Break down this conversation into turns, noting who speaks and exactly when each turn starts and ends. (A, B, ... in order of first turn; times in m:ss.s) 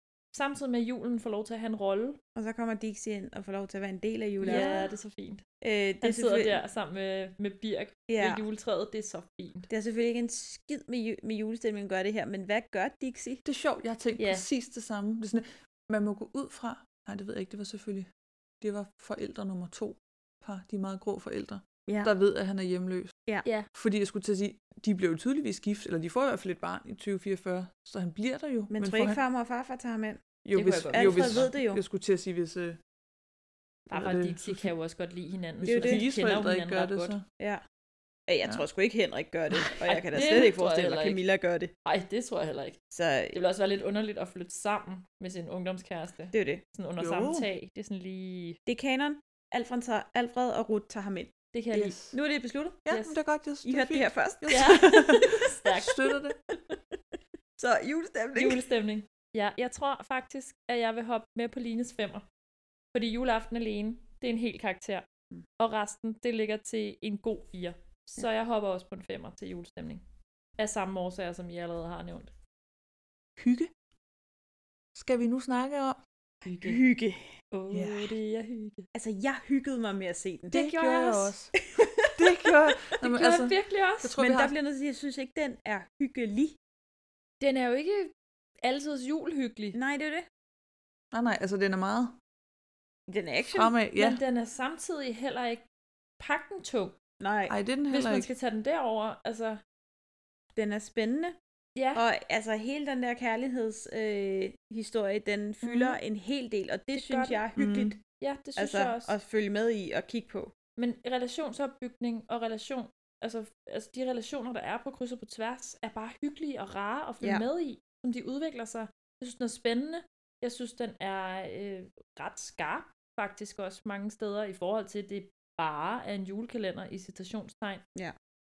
0:00.3-0:02.2 A
0:02.4-0:04.9 B
0:04.4-0:05.4 A
0:04.4-0:04.9 C
0:05.6-0:06.6 B
0:06.0-0:09.7 A
0:08.1-0:08.4 B
0:09.7-0:13.4 B
0:13.4-0:18.1 C
0:14.2-0:14.4 A
0:18.6-0:23.1 C
0:23.7-0:29.2 C
0:28.7-0:30.2 B
0:30.4-0:32.8 C
0:30.5-0:31.5 A
0:30.9-0:31.8 B
0:33.9-0:37.1 A
0:33.9-0:34.7 C
0:35.6-0:36.0 B
0:35.7-0:37.2 C
0:38.3-0:41.7 B
0:39.8-0:41.2 A
0:41.8-0:42.8 A
0:42.9-0:43.4 B
0:43.3-0:48.6 A
0:46.3-0:46.6 B
0:47.0-0:47.4 C
0:48.7-0:51.3 B
0:51.5-0:52.0 A
0:51.7-0:52.1 C
0:52.1-0:52.9 B
0:52.8-0:56.4 C
0:52.9-0:53.2 A
0:53.6-0:55.2 B
0:54.5-0:56.0 A
0:57.6-0:58.6 B
0:58.4-1:02.2 A
1:02.9-1:05.0 A
1:05.6-1:10.0 A
1:10.6-1:12.3 A
1:13.4-1:13.7 C
1:14.9-1:16.0 C
1:16.4-1:16.8 A
1:16.6-1:17.3 B
1:17.5-1:18.9 A
1:17.7-1:18.1 C
1:18.9-1:20.6 B
1:20.5-1:21.3 A
1:20.5-1:21.5 C
1:21.6-1:22.2 B
1:22.1-1:24.5 C
1:23.0-1:24.2 A
1:24.2-1:26.6 B
1:27.4-1:29.8 A
1:29.7-1:30.3 B
1:31.1-1:32.2 C
1:33.1-1:33.7 B
1:33.4-1:34.2 C
1:34.0-1:35.6 A
1:36.2-1:36.9 A
1:37.2-1:37.5 B
1:37.5-1:38.3 C
1:37.9-1:39.6 A
1:40.5-1:41.4 B
1:41.8-1:42.0 A
1:41.9-1:48.0 B
1:45.6-1:46.0 A
1:46.9-1:47.4 A
1:47.6-1:47.9 C
1:48.2-1:49.1 A
1:48.6-1:50.5 B
1:50.8-2:07.8 A